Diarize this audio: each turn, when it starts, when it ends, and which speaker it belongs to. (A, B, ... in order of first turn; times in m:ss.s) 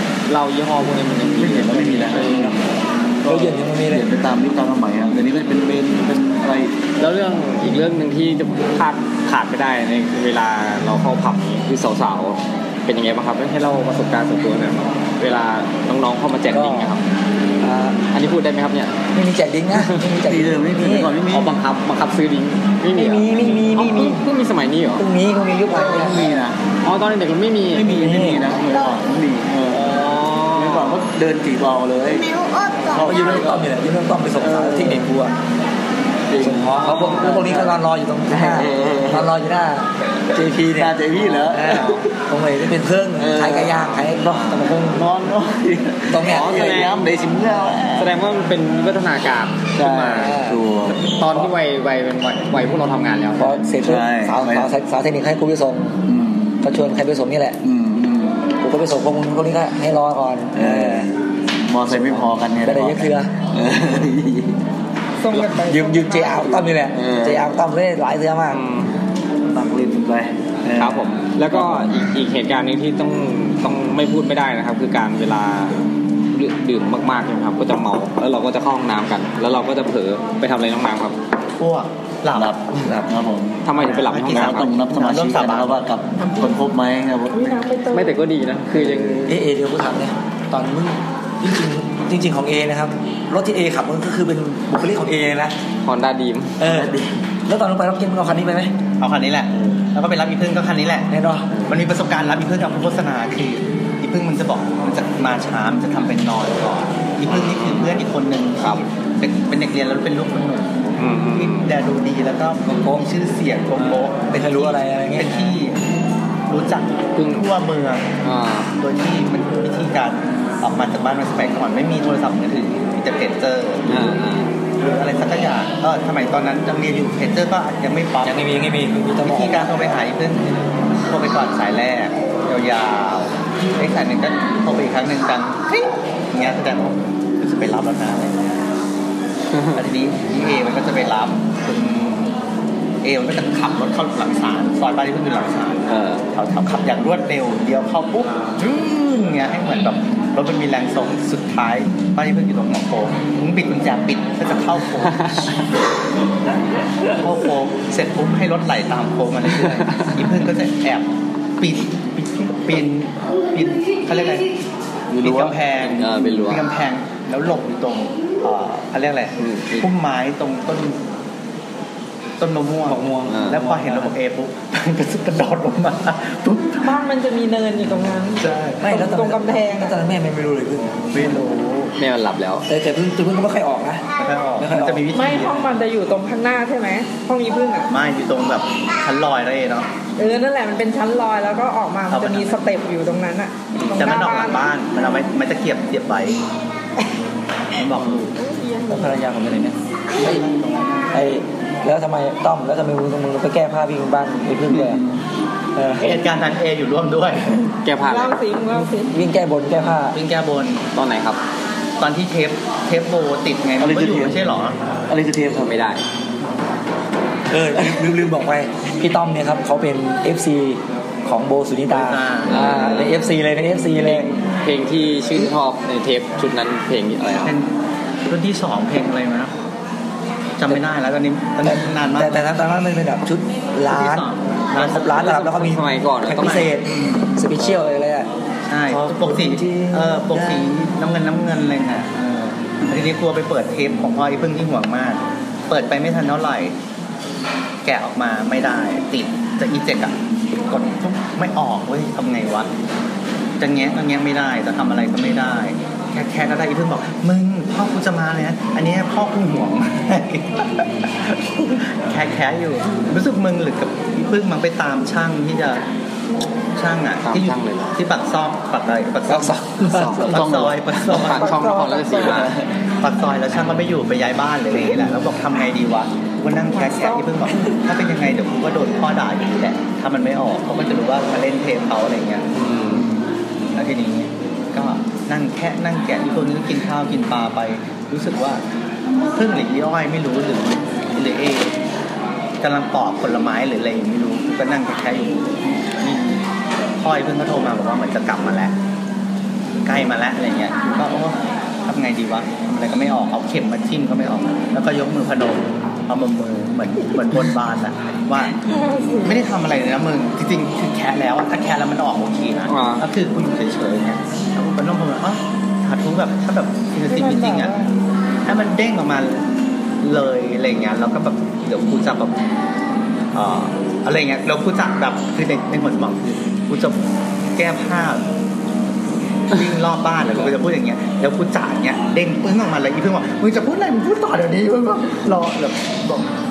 0:00.2-0:02.6 A
0:01.3-0:06.8 B
0:03.2-0:04.0 C
0:07.0-0:17.0 A
0:16.5-0:16.9 C
0:17.6-0:18.0 C
0:18.1-0:19.0 A
0:19.1-0:21.1 C
0:19.7-0:20.0 A
0:20.2-0:21.6 B
0:21.3-0:25.0 A
0:22.9-0:24.2 C
0:25.0-0:26.2 C
0:25.7-0:26.6 B
0:26.8-0:28.0 A
0:27.7-0:29.9 B
0:27.8-0:28.4 C
0:29.7-0:31.0 A
0:30.5-0:33.7 B
0:32.9-0:35.4 C
0:34.3-0:35.1 B
0:36.3-0:39.3 B
0:36.4-0:40.9 C
0:36.6-0:37.4 A
0:40.7-0:42.0 B
0:41.5-0:45.0 C
0:41.7-0:42.0 A
0:43.2-0:48.1 B
0:46.1-0:46.8 C
0:46.2-0:47.0 A
0:47.9-0:50.4 A
0:49.8-0:51.5 B
0:50.2-0:50.6 C
0:50.9-0:53.6 A
0:53.4-0:56.0 C
0:53.8-0:54.7 B
0:56.0-0:56.8 B
0:56.6-0:57.6 C
0:57.6-0:58.5 B
0:58.6-1:01.1 C
1:00.5-1:04.6 B
1:01.9-1:03.3 C
1:05.2-1:06.7 D
1:05.3-1:08.6 C
1:06.9-1:07.6 B
1:08.5-1:08.9 A
1:09.5-1:12.0 B
1:10.8-1:15.8 A
1:16.3-1:21.2 A
1:21.6-1:22.6 E
1:22.3-1:27.6 B
1:22.7-1:23.0 C
1:23.6-1:24.7 A
1:23.7-1:25.8 E
1:26.2-1:26.5 D
1:27.3-1:28.2 D
1:27.9-1:29.4 A
1:28.7-1:29.2 B
1:29.2-1:35.5 C
1:35.8-1:36.6 A
1:36.6-1:38.7 C
1:36.6-1:37.0 B
1:39.0-1:41.1 E
1:39.6-1:39.8 B
1:41.1-1:41.5 C
1:41.5-1:41.8 B
1:41.6-1:55.8 E
1:47.2-1:48.0 A
1:51.0-1:51.7 A
1:52.6-1:53.0 C
1:54.3-1:55.4 C
1:56.5-1:58.0 E
1:57.1-1:57.5 A
1:58.2-1:58.7 A
1:58.8-2:04.1 E
2:03.9-2:04.5 A
2:04.8-2:08.5 E
2:08.2-2:09.7 C
2:09.2-2:10.5 E
2:11.1-2:18.4 E
2:19.5-2:19.8 A
2:19.7-2:22.3 E
2:23.0-2:35.5 E
2:25.9-2:26.2 A
2:35.1-2:35.5 A
2:37.2-2:41.1 E
2:39.6-2:40.2 A
2:41.6-2:44.5 E
2:45.1-2:45.6 B
2:45.2-2:51.0 E
2:45.8-2:46.6 A
2:49.4-2:49.9 A
2:52.4-2:56.9 E
2:52.8-2:54.1 C
2:53.3-2:53.6 A
2:56.8-2:59.9 D
2:58.4-2:58.8 E
2:58.8-3:01.6 C
3:01.1-3:01.9 E
3:02.0-3:02.7 A
3:02.7-3:04.0 C
3:04.2-3:05.6 E
3:04.6-3:05.1 C
3:05.1-3:07.9 D
3:07.9-3:09.9 E
3:10.2-3:14.6 D
3:12.1-3:12.6 E
3:13.8-3:16.4 E
3:17.8-3:18.4 E
3:18.0-3:18.2 A
3:18.4-3:19.2 D
3:18.9-3:20.5 C
3:20.1-3:21.2 E
3:21.1-3:25.0 C
3:24.7-3:25.2 B
3:25.8-3:26.2 C
3:26.0-3:27.6 E
3:27.8-3:28.4 A
3:28.1-3:29.1 D
3:28.7-3:30.2 C
3:30.1-3:30.9 E
3:30.9-3:31.4 A
3:32.0-3:34.8 E
3:33.8-3:34.4 B
3:35.1-3:35.8 B
3:35.5-3:36.0 A
3:37.5-3:44.3 C
3:37.7-3:38.3 B
3:41.9-3:42.6 E
3:42.5-3:43.2 A
3:43.9-3:47.6 A
3:47.4-3:47.7 E
3:48.3-3:49.5 E
3:50.6-3:52.4 E
3:51.6-3:58.3 C
3:53.8-3:55.2 E
3:54.7-3:56.7 A
3:56.4-3:57.3 E
3:58.7-4:06.7 E
3:58.9-4:00.6 C
4:07.8-4:12.7 E
4:13.6-4:25.8 E
4:26.7-4:31.6 E
4:27.2-4:28.0 A
4:29.3-4:30.3 C
4:29.9-4:31.0 B
4:30.0-4:30.2 A
4:31.0-4:32.5 A
4:31.4-4:32.3 D
4:32.2-4:32.6 B
4:33.0-4:42.4 E
4:36.7-4:37.2 D
4:42.5-4:43.1 A
4:43.7-4:48.6 E
4:49.3-4:51.7 E
4:52.6-4:56.4 E
4:57.0-4:58.7 E
4:59.8-5:08.6 E
5:08.6-5:09.4 D
5:09.2-5:17.8 E
5:12.7-5:13.0 A
5:17.1-5:17.9 D
5:18.4-5:19.4 E
5:20.0-5:22.5 E
5:23.3-5:28.3 E
5:29.5-5:36.3 E